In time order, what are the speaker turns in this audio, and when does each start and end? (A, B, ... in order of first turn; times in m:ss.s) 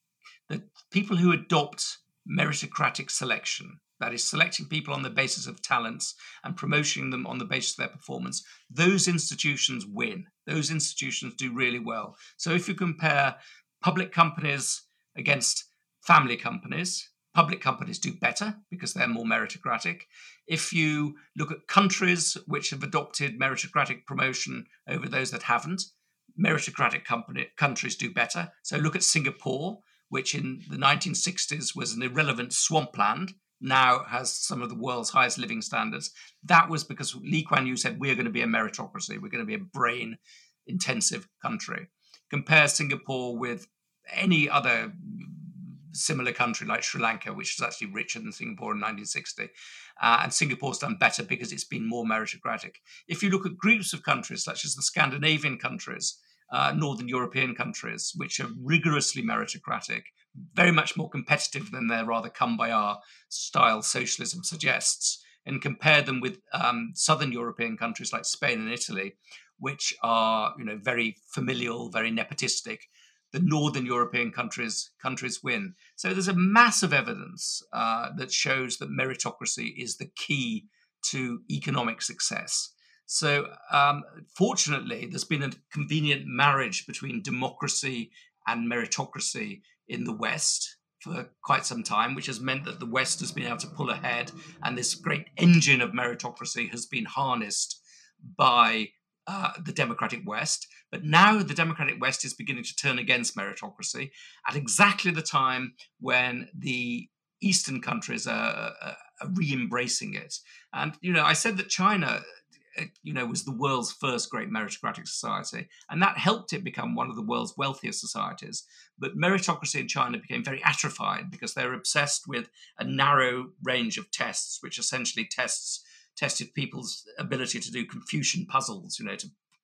0:00.5-1:52.2 A
1:52.7-2:09.3 A